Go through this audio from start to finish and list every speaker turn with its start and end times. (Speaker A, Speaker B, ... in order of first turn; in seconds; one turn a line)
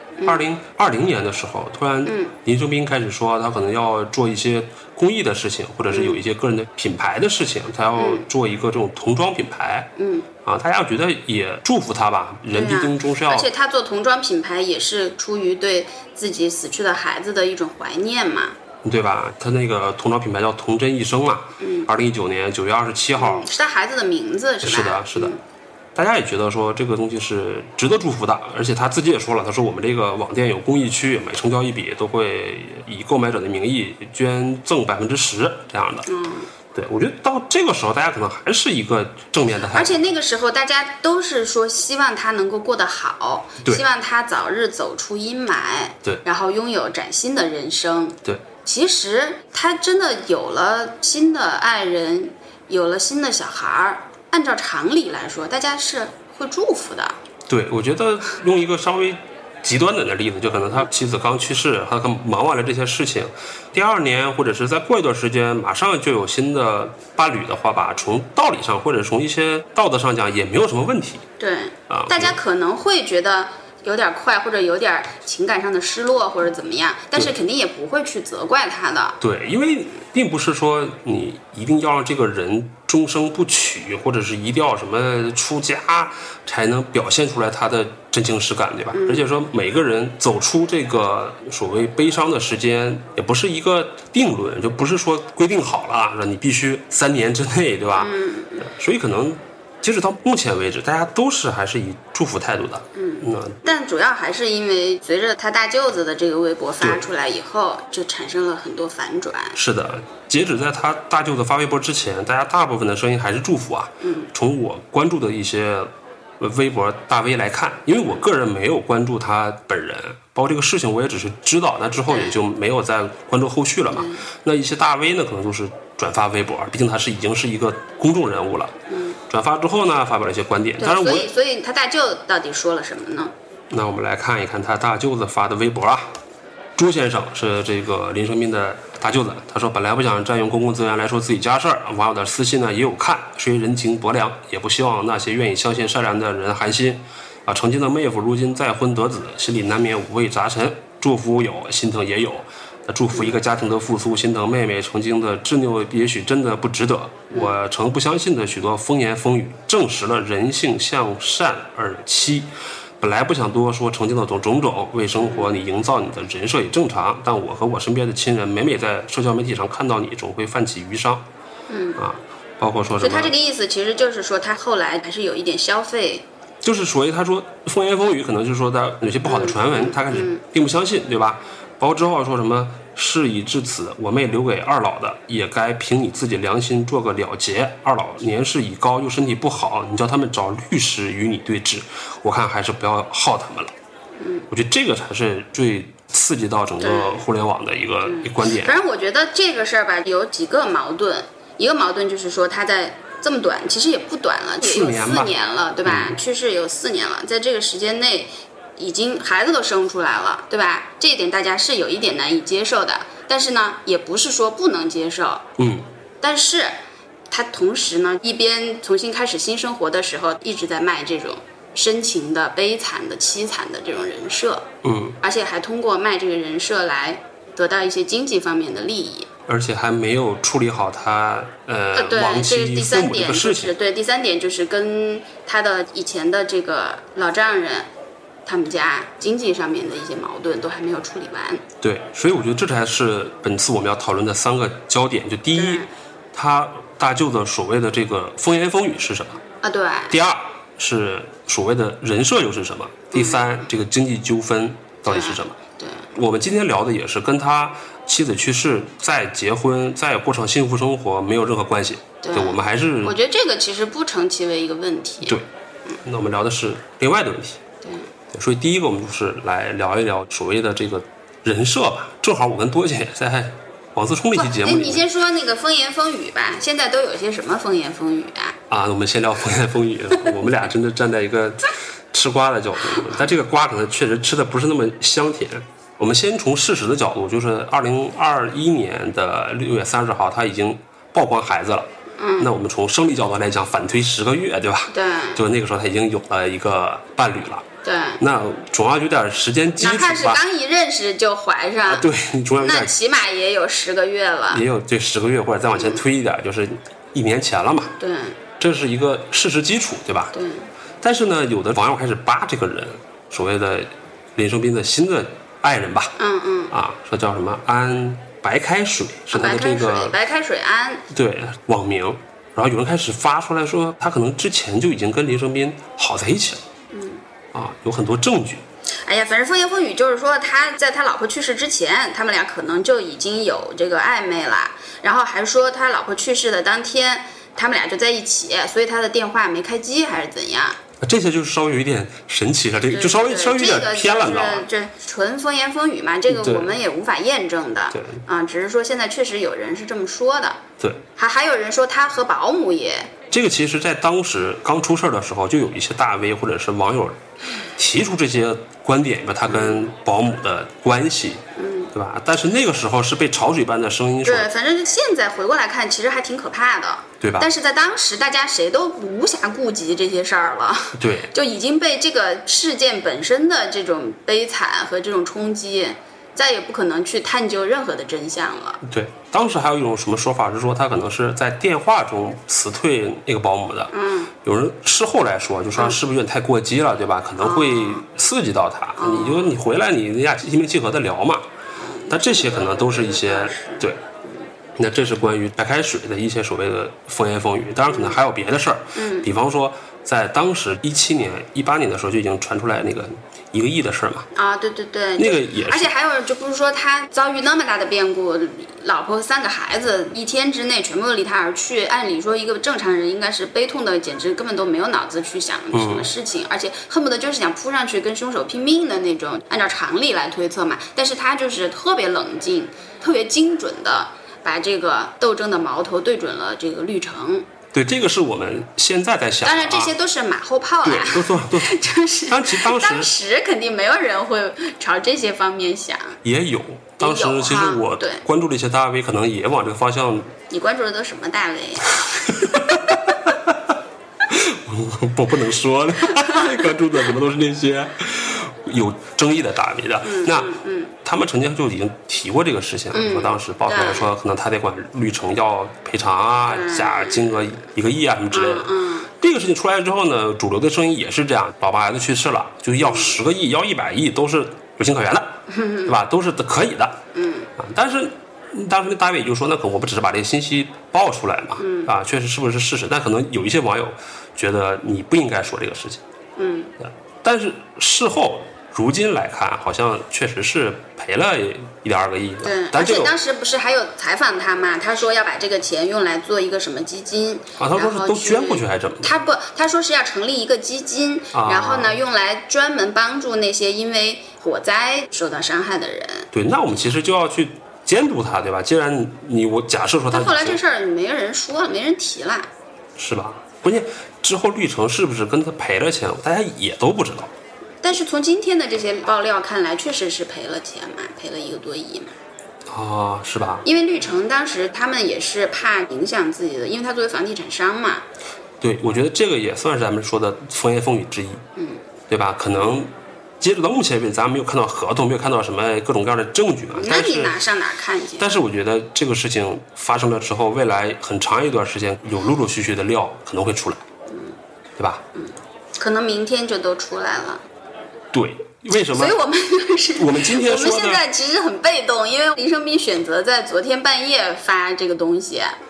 Speaker A: 0.2-0.5
Speaker B: 0.2-9.9
Speaker A: 2.0-2.3
Speaker A: 5.9-6.2
Speaker A: 7.9-8.3
Speaker A: 10.0-10.3
Speaker B: 10.4-13.5
Speaker A: 12.5-18.6
Speaker B: 18.8-23.5
Speaker A: 21.6-21.9
Speaker A: 23.2-25.4
Speaker B: 24.6-25.4
Speaker B: 25.9-36.1
Speaker A: 36.1-36.5
Speaker B: 36.8-40.0
Speaker A: 39.7-57.2
Speaker B: 57.5-71.2
Speaker A: 71.4-79.2
Speaker B: 71.9-72.4
Speaker B: 79.2-103.6
Speaker A: 88.9-89.3
Speaker A: 98.0-98.7
Speaker A: 102.9-109.6
Speaker B: 109.5-128.8
Speaker A: 114.0-114.3
Speaker A: 122.1-122.4
Speaker A: 123.9-124.2
Speaker A: 128.9-129.2
Speaker B: 129.3-131.3
Speaker A: 130.8-133.3
Speaker B: 133.7-136.2
Speaker B: 136.8-162.5
Speaker A: 157.3-157.6
Speaker B: 163.0-171.2
Speaker A: 165.2-165.5
Speaker A: 171.7-172.0
Speaker B: 172.0-173.3
Speaker A: 172.9-176.3
Speaker B: 176.6-193.7
Speaker A: 179.3-180.4
Speaker A: 194.2-194.5
Speaker B: 194.5-198.8
Speaker A: 196.8-197.2
Speaker A: 198.0-215.5
Speaker B: 204.6-205.3
Speaker B: 205.9-206.2
Speaker B: 215.6-215.9
Speaker A: 216.2-216.8
Speaker A: 217.3-224.7
Speaker B: 224.8-225.2
Speaker A: 225.2-229.3
Speaker B: 229.5-233.7
Speaker A: 231.9-237.9
Speaker A: 238.4-241.6
Speaker B: 241.8-249.4
Speaker A: 245.6-245.9
Speaker A: 249.6-250.2
Speaker B: 250.1-255.6
Speaker A: 253.1-253.6
Speaker A: 255.1-256.1
Speaker B: 256.1-263.2
Speaker A: 262.2-265.4
Speaker B: 265.2-265.5
Speaker B: 266.0-267.6
Speaker A: 267.8-268.1
Speaker B: 268.3-275.1
Speaker A: 274.3-278.6
Speaker B: 278.7-297.7
Speaker A: 292.2-292.5
Speaker A: 294.9-295.4
Speaker A: 297.8-298.2
Speaker B: 298.2-300.4
Speaker A: 299.8-302.1
Speaker B: 301.9-302.9
Speaker A: 302.6-304.6
Speaker B: 304.5-307.9
Speaker A: 305.7-306.0
Speaker A: 308.0-308.4
Speaker B: 308.6-310.3
Speaker A: 310.3-310.7
Speaker B: 311.0-316.2
Speaker A: 316.2-316.7
Speaker B: 316.7-320.2
Speaker A: 319.3-321.1
Speaker B: 321.1-326.6
Speaker A: 326.9-327.2
Speaker B: 327.5-328.6
Speaker A: 329.0-340.8
Speaker B: 341.0-344.7
Speaker A: 342.9-350.6
Speaker B: 346.3-346.7
Speaker B: 347.9-348.2
Speaker A: 351.2-353.1
Speaker B: 353.3-357.2
Speaker B: 357.8-364.5
Speaker A: 359.5-359.9
Speaker A: 361.6-361.9
Speaker A: 364.2-378.8
Speaker B: 367.2-367.5
Speaker B: 370.9-371.3
Speaker B: 378.8-391.5
Speaker A: 383.9-384.3
Speaker A: 387.4-388.1
Speaker A: 389.0-389.5
Speaker A: 391.8-394.5
Speaker B: 392.1-394.0
Speaker B: 394.8-404.3
Speaker A: 397.9-398.2
Speaker A: 398.9-399.3
Speaker A: 404.3-427.5
Speaker B: 405.2-405.9
Speaker B: 415.7-416.1
Speaker B: 427.7-429.9
Speaker A: 429.4-436.2
Speaker B: 430.8-433.1
Speaker B: 436.2-440.3
Speaker A: 437.0-438.2
Speaker A: 440.5-443.0
Speaker B: 442.1-443.7
Speaker B: 444.3-467.0
Speaker A: 446.1-446.7
Speaker A: 450.0-450.9
Speaker A: 452.9-454.1
Speaker A: 456.4-457.4
Speaker A: 458.3-459.1
Speaker A: 462.8-463.2
Speaker A: 465.5-465.9
Speaker A: 467.1-467.5
Speaker B: 467.6-476.0
Speaker A: 471.6-471.9
Speaker A: 476.4-476.7
Speaker B: 476.8-483.1
Speaker A: 482.4-496.3
Speaker B: 487.6-489.2
Speaker B: 491.3-492.0
Speaker B: 496.3-500.6
Speaker A: 500.1-502.5
Speaker B: 503.0-507.3
Speaker A: 507.8-512.1
Speaker B: 512.7-513.6
Speaker A: 513.6-518.1
Speaker B: 518.6-521.4
Speaker A: 521.6-521.8
Speaker B: 522.1-527.4
Speaker A: 526.7-528.4
Speaker B: 528.2-533.8
Speaker A: 534.1-534.4
Speaker B: 534.8-535.0
Speaker A: 535.1-537.4
Speaker B: 538.1-539.2
Speaker A: 538.7-545.5
Speaker B: 540.0-541.0